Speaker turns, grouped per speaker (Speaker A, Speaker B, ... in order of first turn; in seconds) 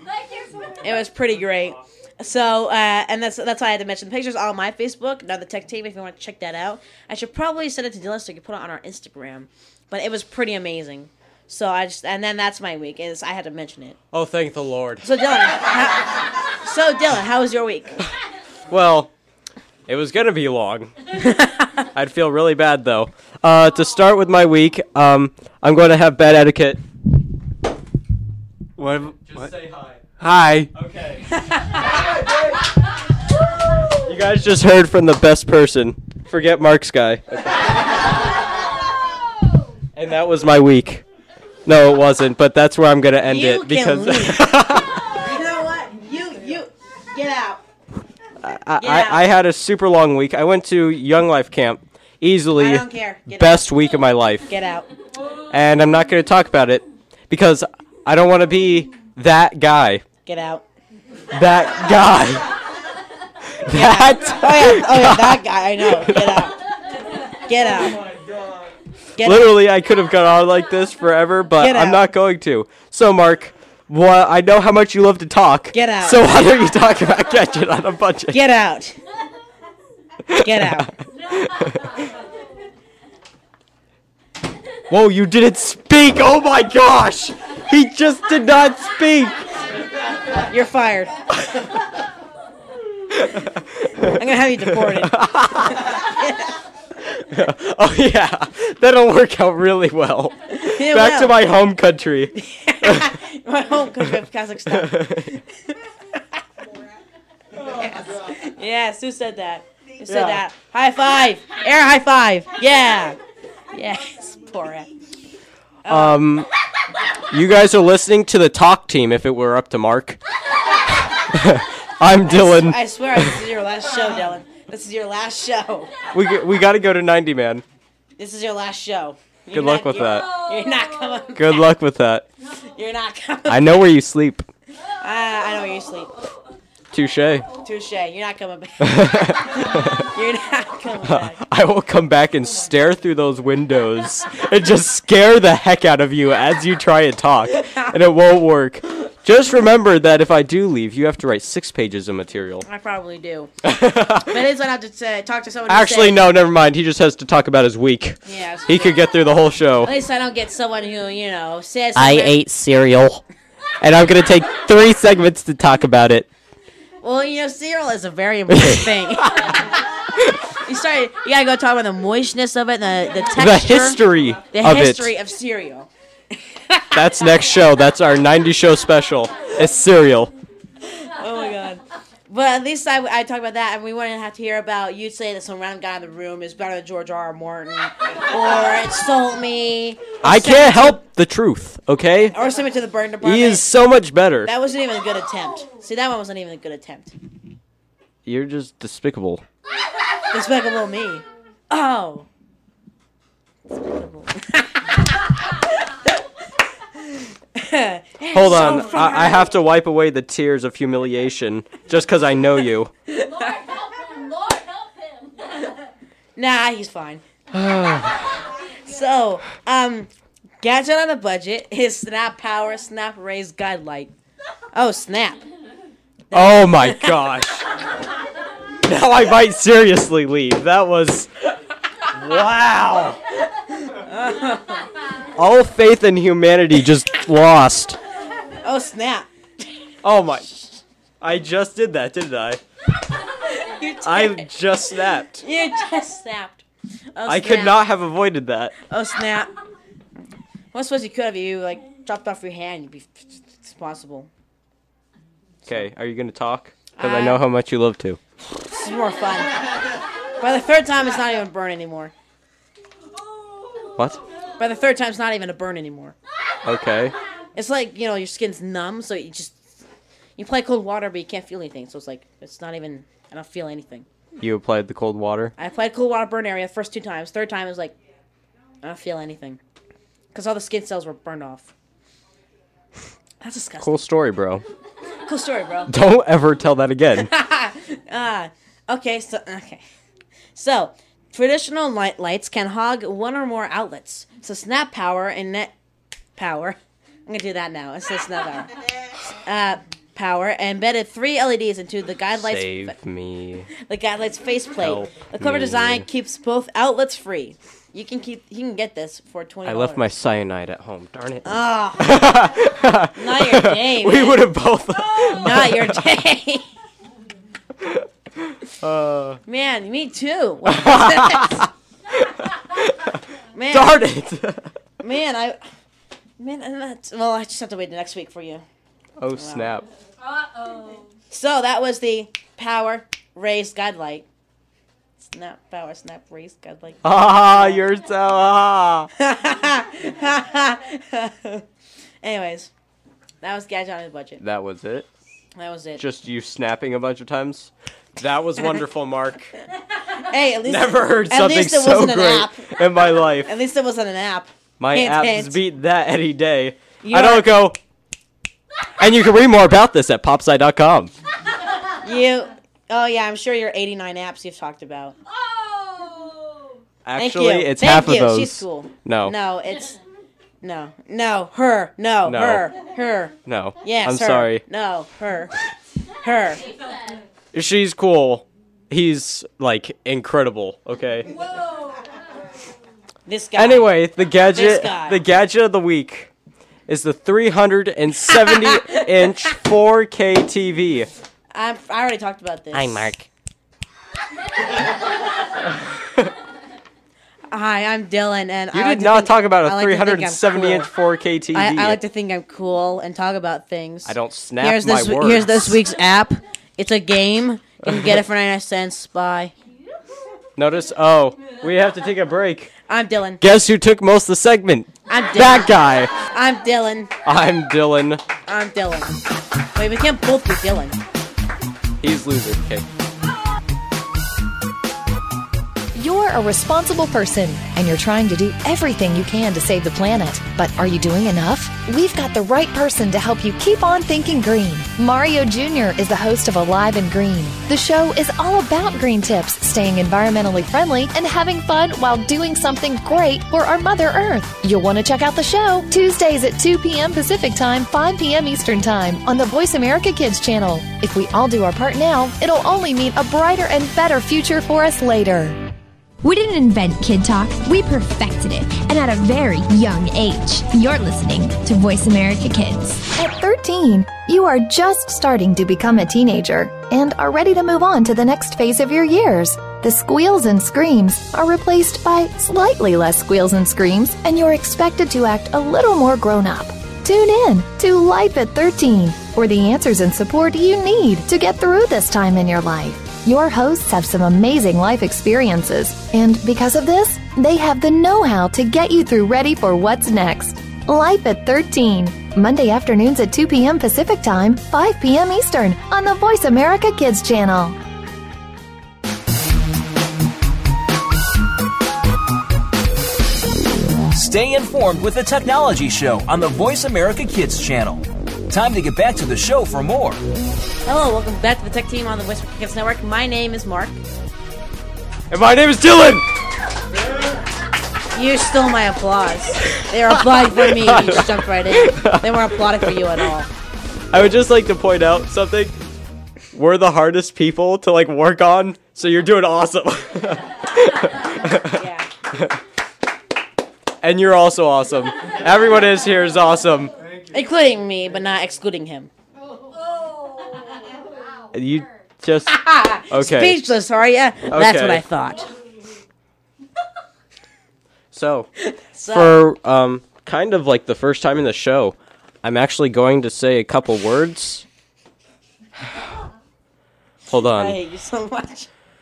Speaker A: 0.7-14.0, 15.0-18.0, 21.2-21.7, 31.4-31.6, 43.2-47.6, 48.8-49.2, 52.6-53.7, 54.5-54.9, 60.2-60.6, 63.7-66.6, 67.3-68.0, 69.2-69.5, 71.6-72.0, 75.7-76.2, 78.3-79.0, 80.4-80.9, 90.5-91.1, 94.1-96.5, 100.5-101.3, 102.4-105.4, 107.7-113.2, 113.7-114.9, 115.8-116.2, 122.2-126.0, 128.2-131.7, 132.7-133.8, 135.0-136.1, 137.6-141.4, 147.5-147.9, 152.6-153.5, 154.1-156.2, 158.2-159.0, 159.8-162.4, 167.0-169.9, 170.5-177.0, 180.9-191.0, 192.3-193.7, 194.4-197.1, 200.3-202.3, 203.7-205.6, 207.5-209.5, 213.1-214.5, 216.3-217.2, 218.8-220.1, 220.6-224.1, 224.7-225.4, 226.3-227.3, 233.8-234.8, 238.6-239.3, 243.5-244.5, 245.4-247.8, 248.8-249.5, 250.7-254.3, 256.9-257.4, 258.6-259.6, 260.4-262.1, 264.6-266.1, 267.5-269.6, 270.4-274.1, 275.6-277.9, 278.8-279.6, 280.3-281.7, 283.4-284.1, 285.2-285.9, 287.1-289.8, 290.5-295.7, 296.4-298.7, 299.4-302.9, 303.8-310.1, 311.4-312.4, 313.1-314.4, 315.0-316.7, 319.5-321.7, 323.5-324.1, 325.0-325.6, 326.4-328.6, 329.4-329.7, 331.3-334.2, 335.2-337.8, 339.2-341.6, 342.2-342.7, 343.4-344.4, 345.6-346.0, 350.1-352.7, 353.4-355.6, 357.0-357.5, 362.0-365.1, 367.1-370.0, 370.6-375.5, 376.2-376.6, 383.3-383.9, 384.5-385.2, 388.2-389.3, 391.5-393.1, 397.5-400.9, 401.5-409.5, 412.9-413.4, 415.1-417.1, 418.5-419.2, 419.7-421.0, 510.9-514.0, 518.1-523.5, 531.5-532.1, 537.3-539.1, 542.5-545.5, 548.6-549.4, 557.5-558.7
Speaker B: 14.1-15.0, 18.7-19.1, 19.9-21.1, 21.9-26.8, 28.8-31.3, 34.0-37.7, 39.9-41.0, 41.6-45.1, 48.4-54.5, 55.5-60.0, 61.3-62.5, 63.6-65.4, 66.0-66.4, 69.2-78.4, 80.3-81.9, 84.9-89.4, 93.1-94.2, 94.8-95.9, 97.1-103.1, 104.7-105.3, 110.1-110.4, 115.9-116.5, 117.3-120.2, 121.2-122.8, 126.1-127.6, 129.5-130.4, 131.3-132.3, 133.5-134.5, 136.9-137.5, 138.8-140.1, 141.0-152.6, 153.6-154.4, 155.7-159.9, 161.9-163.2, 163.8-166.3, 168.5-169.5, 173.3-175.1, 176.9-180.3, 190.2-192.3, 193.2-194.5, 198.2-199.4, 208.3-212.9, 217.5-218.3, 226.3-227.7, 228.8-231.5, 232.1-233.2, 235.3-238.0, 240.0-240.5, 241.2-242.6, 244.0-245.4, 247.2-248.7, 255.7-258.2, 266.6-267.1, 274.4-275.5, 283.8-284.6, 285.9-287.3, 302.4-303.7, 304.8-306.1, 309.6-316.0, 317.8-319.4, 320.7-323.2, 323.7-324.7, 329.2-329.8, 337.0-339.1, 344.4-345.1, 346.0-349.5, 350.6-353.5, 354.8-357.8, 359.0-361.1, 367.0-369.3, 372.2-372.6, 373.4-374.6, 377.5-381.4, 383.6-386.3, 386.9-391.1, 392.7-393.2, 398.7-402.0, 404.1-405.8, 410.6-412.7, 413.4-416.1, 417.2-418.2, 422.0-422.8, 515.3-516.2, 520.3-523.0, 524.1-525.8, 526.5-531.8, 534.0-536.9, 541.5-543.6, 544.5-545.0, 548.1-548.5, 549.1-554.6, 557.3-557.8
Speaker C: 425.9-455.6, 460.7-461.0, 462.1-497.8
Speaker D: 456.2-463.0
Speaker E: 504.1-510.2